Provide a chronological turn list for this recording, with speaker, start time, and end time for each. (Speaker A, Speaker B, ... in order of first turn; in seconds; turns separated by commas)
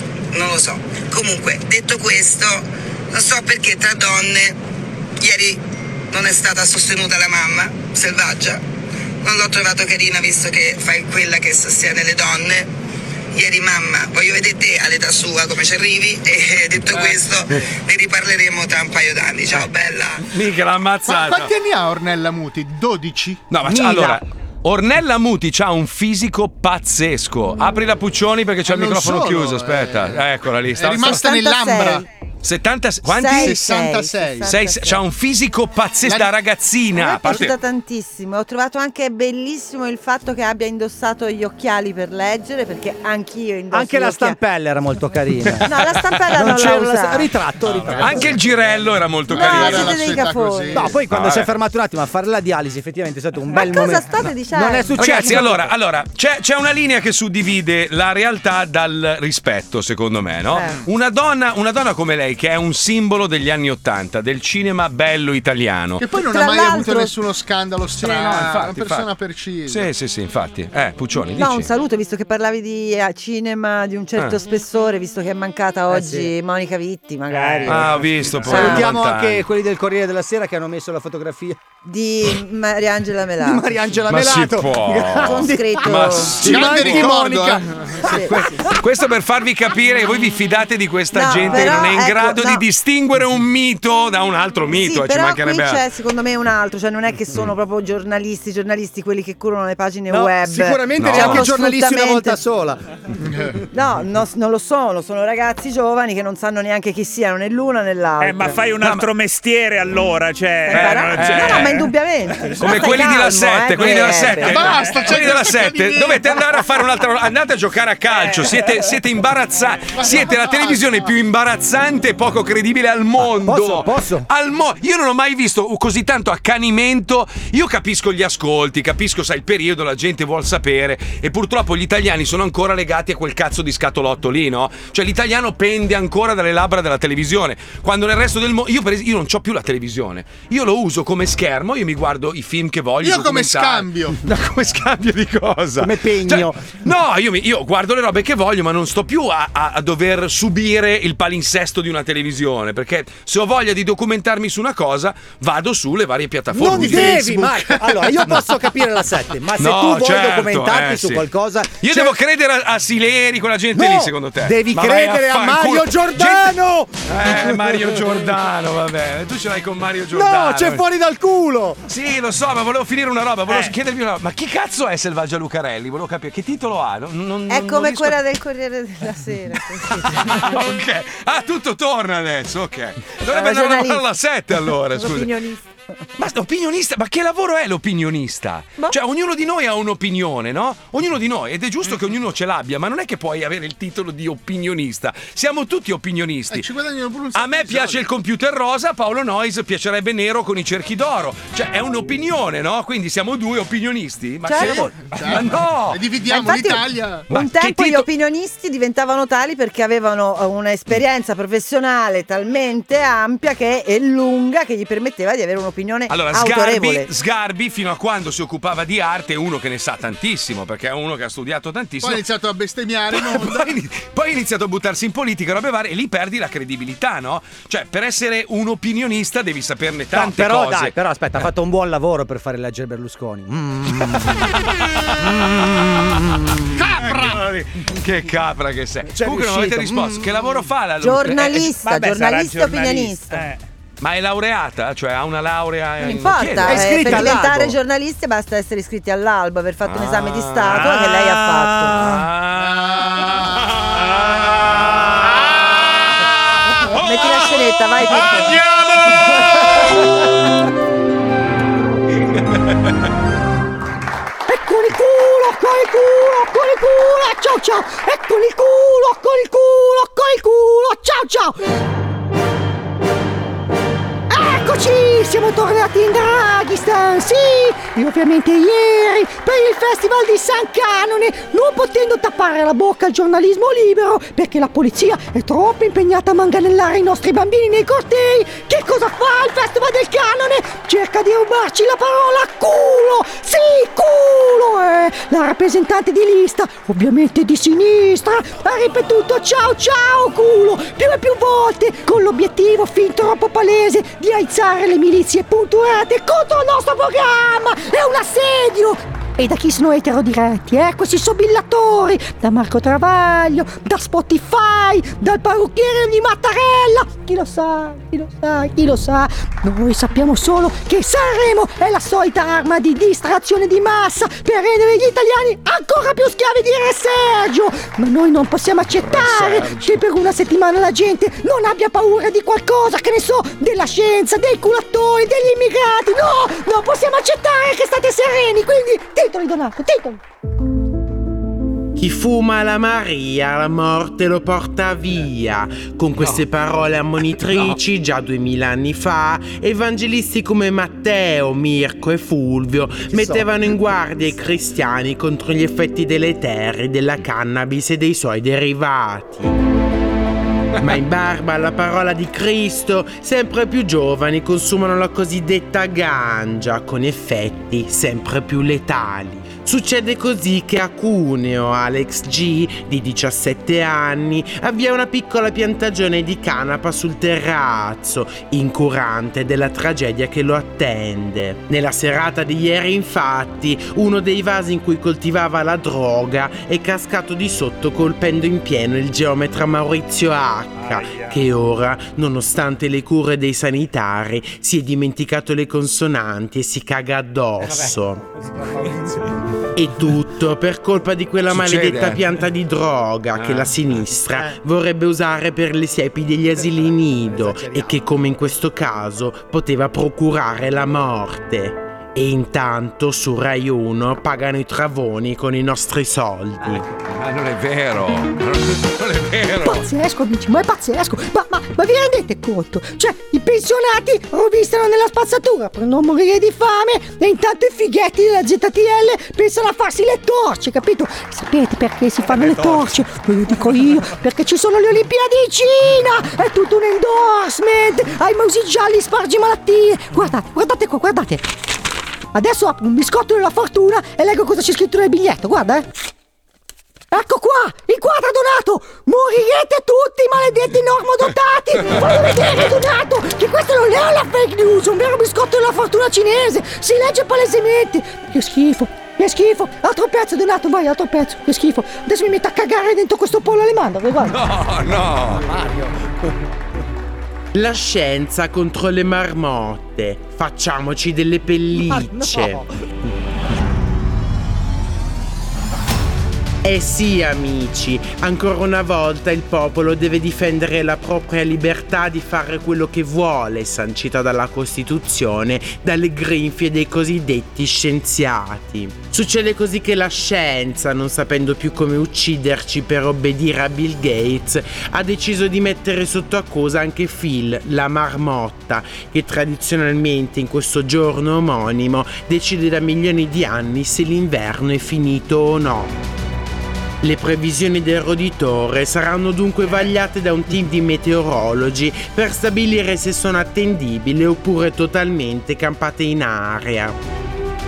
Speaker A: 0.3-4.6, Speaker A: 5.2-5.6, Speaker A: 6.1-8.6, Speaker A: 9.2-12.7, Speaker A: 13.3-20.3, Speaker B: 20.2-21.5, Speaker C: 21.1-23.4, Speaker B: 23.5-31.3, Speaker D: 23.6-24.2, Speaker C: 28.7-30.2, Speaker C: 30.8-32.0, Speaker E: 31.1-32.1, Speaker B: 32.4-33.8, Speaker E: 33.0-35.0, Speaker C: 33.4-34.5, Speaker B: 34.4-37.6, Speaker C: 36.0-36.3, Speaker E: 37.0-44.4, Speaker D: 43.7-48.5, Speaker E: 45.6-47.3, Speaker B: 47.7-50.2, Speaker C: 49.3-51.0, Speaker E: 49.3-50.9, Speaker D: 50.7-55.7, Speaker B: 51.1-51.5, Speaker E: 53.5-55.1, Speaker B: 55.0-66.0, Speaker C: 66.0-69.9, Speaker E: 66.3-67.1, Speaker B: 68.0-69.1, Speaker B: 69.7-71.7, Speaker E: 71.4-78.9, Speaker D: 75.9-76.3, Speaker F: 77.3-78.7, Speaker B: 77.7-79.4, Speaker D: 78.5-81.6, Speaker E: 81.8-83.7, Speaker D: 83.4-88.6, Speaker B: 84.1-87.1, Speaker E: 85.2-86.9, Speaker C: 86.4-88.3, Speaker E: 88.0-88.7, Speaker B: 88.4-95.8, Speaker E: 91.1-92.6, Speaker E: 94.7-102.4, Speaker D: 100.1-102.8, Speaker B: 101.0-101.5, Speaker E: 103.7-108.6, Speaker F: 108.2-111.8, Speaker B: 108.8-109.1, Speaker E: 110.7-114.7, Speaker B: 110.7-111.8, Speaker B: 112.6-158.5, Speaker C: 114.4-116.4, Speaker F: 114.8-115.1, Speaker F: 118.1-118.9, Speaker C: 119.9-121.1, Speaker D: 123.2-124.3, Speaker C: 143.0-144.2, Speaker D: 145.8-146.8, Speaker D: 156.5-162.2, Speaker C: 156.7-158.0, Speaker B: 159.6-161.3, Speaker B: 161.8-170.8, Speaker D: 163.8-167.9, Speaker D: 170.1-171.8, Speaker B: 171.9-178.2, Speaker F: 173.5-173.7, Speaker E: 177.5-180.5, Speaker B: 180.0-185.3, Speaker E: 183.3-184.0, Speaker E: 184.9-185.7, Speaker B: 186.2-196.7, Speaker C: 196.5-198.1, Speaker B: 197.3-206.0, Speaker E: 204.4-204.9, Speaker C: 204.6-207.3, Speaker E: 206.3-217.1, Speaker B: 207.3-208.1, Speaker B: 216.1-222.2, Speaker C: 222.0-223.8, Speaker B: 223.1-231.0, Speaker D: 230.1-234.4, Speaker D: 235.2-236.8, Speaker C: 236.7-237.5, Speaker B: 237.0-241.7, Speaker D: 239.1-240.5, Speaker E: 241.0-243.5, Speaker F: 241.3-243.6, Speaker B: 244.0-247.5, Speaker E: 246.0-252.1, Speaker D: 246.6-247.8, Speaker B: 249.8-251.0, Speaker F: 250.7-252.2, Speaker B: 251.9-259.9, Speaker E: 256.9-258.6, Speaker E: 259.1-259.9, Speaker G: 264.5-271.6, Speaker G: 274.3-340.2, Speaker B: 329.0-330.0, Speaker H: 342.0-359.6, Speaker B: 346.1-346.4, Speaker B: 347.5-347.8, Speaker D: 353.1-353.6, Speaker H: 360.8-398.2, Speaker F: 390.7-391.4, Speaker D: 397.6-397.9, Speaker F: 398.8-399.1, Speaker H: 399.8-416.9, Speaker B: 401.5-402.3, Speaker B: 403.4-404.1, Speaker D: 407.2-408.0, Speaker B: 417.1-419.9, Speaker G: 419.6-441.5, Speaker F: 432.3-432.9, Speaker G: 442.3-445.9, Speaker G: 447.1-464.4, Speaker B: 464.2-465.5, Speaker D: 465.3-466.0, Speaker H: 467.6-472.6, Speaker D: 471.7-472.7, Speaker H: 476.6-506.0, Speaker H: 507.0-517.0